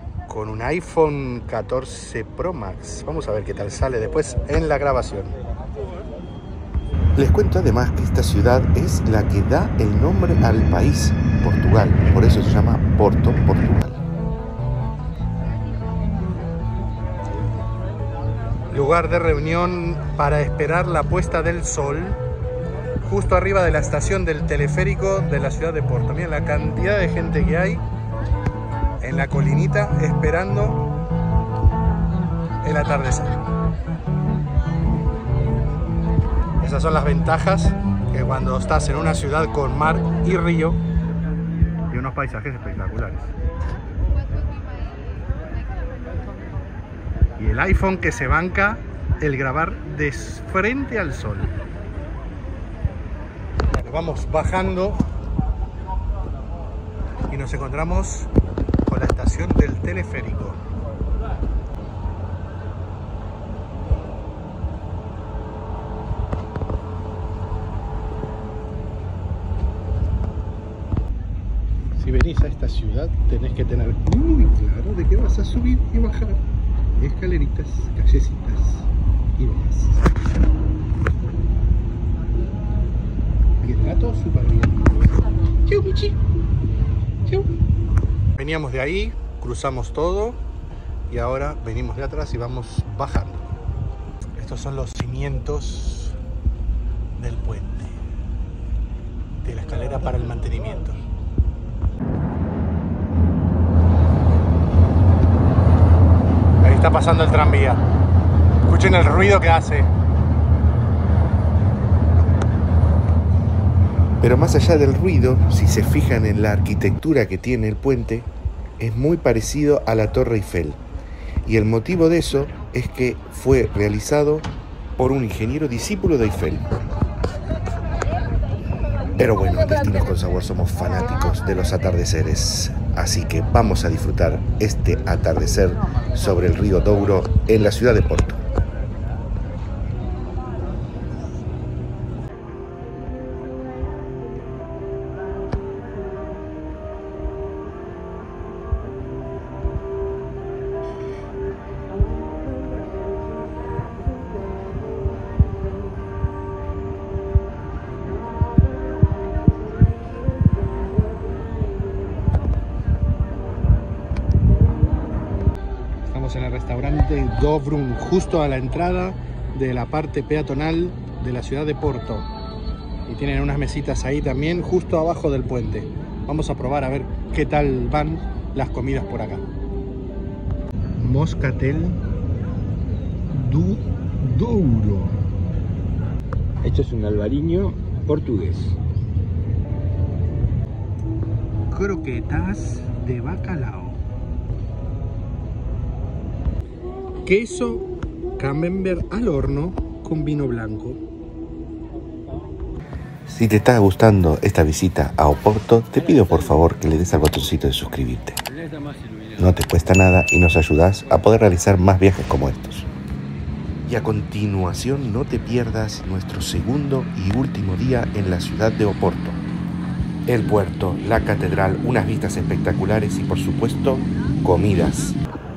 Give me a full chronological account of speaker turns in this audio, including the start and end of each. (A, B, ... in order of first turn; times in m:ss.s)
0:00.3-0:05.4 A
0:07.2-0:14.0 B
0:18.7-0:22.2 A
0:23.0-0:27.8 A
0:29.0-0:30.9 A
0:32.6-0:33.4 A
0:36.6-0:40.8 A
0:41.9-0:43.3 A
0:47.4-0:51.5 A
0:53.8-0:55.0 A
0:57.3-0:58.3 A
0:58.9-1:00.6 A
1:12.0-1:16.4 A
1:17.0-1:20.1 A
1:23.6-1:24.9 A
1:25.7-1:26.2 A
1:28.4-1:30.4 A
1:31.1-1:33.5 A
1:34.4-1:36.2 A
1:37.2-1:38.0 A
1:39.4-1:41.0 A
1:46.6-1:47.8 A
1:48.7-1:49.9 A
1:54.2-2:00.8 B
2:01.4-2:06.8 B
2:09.2-2:18.4 B
2:46.0-2:52.3 A
2:53.1-2:59.4 A
3:01.0-3:02.0 A
3:03.3-3:05.2 A
3:06.6-3:08.8 C
3:11.7-3:14.0 A
3:17.2-3:21.0 A
3:23.3-3:28.4 B
3:28.6-3:29.4 C
3:29.4-3:32.9 B
3:33.9-3:39.4 B
3:40.3-3:45.2 B